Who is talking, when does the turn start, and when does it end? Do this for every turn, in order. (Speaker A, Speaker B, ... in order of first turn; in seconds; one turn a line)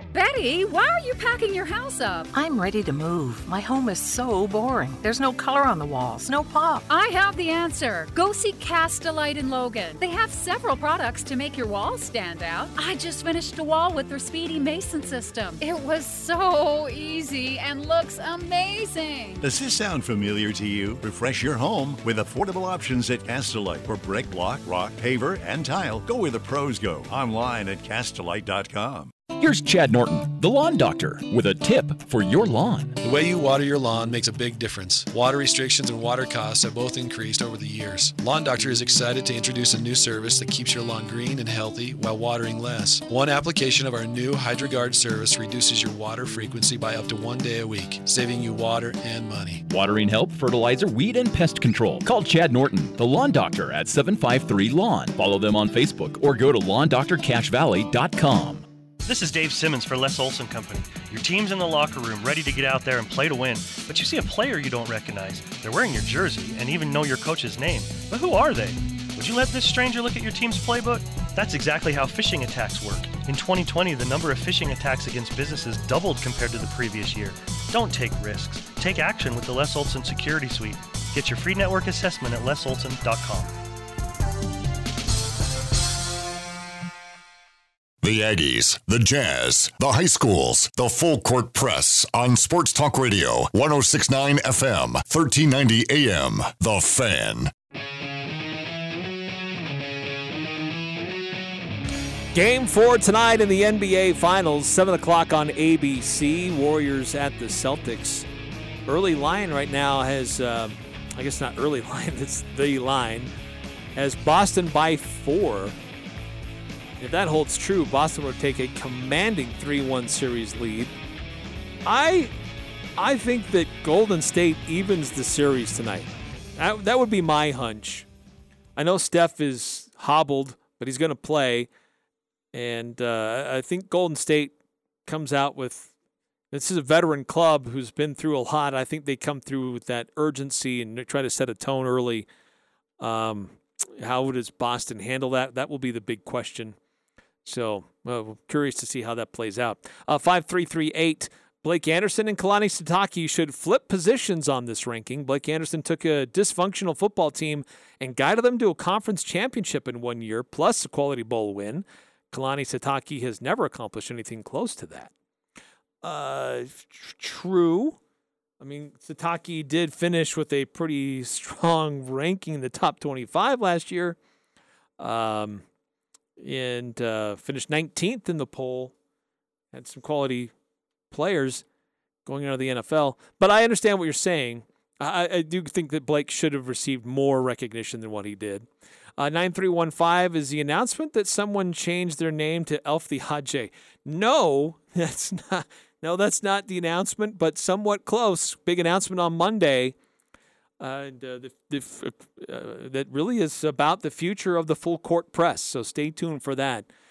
Speaker A: 0.1-2.3
Speaker B: 2.3-6.8
Speaker A: 6.9-19.5
Speaker C: 19.4-29.1
Speaker D: 29.3-33.0
Speaker E: 33.0-49.6
Speaker D: 49.7-58.6
Speaker F: 59.0-83.5
Speaker G: 88.0-97.5
Speaker H: 102.3-108.3
Speaker H: 108.9-113.3
Speaker H: 114.0-115.8
Speaker H: 117.0-120.9
Speaker H: 121.8-122.3
Speaker H: 123.0-128.1
Speaker H: 128.8-131.7
Speaker H: 132.5-134.5
Speaker H: 135.1-135.9
Speaker H: 136.5-142.3
Speaker H: 143.0-146.8
Speaker H: 147.4-165.1
Speaker H: 166.0-168.0
Speaker H: 168.6-174.2
Speaker H: 175.0-175.6
Speaker H: 176.4-178.9
Speaker H: 179.7-180.5
Speaker H: 181.1-181.6
Speaker H: 182.3-199.9
Speaker H: 200.8-206.9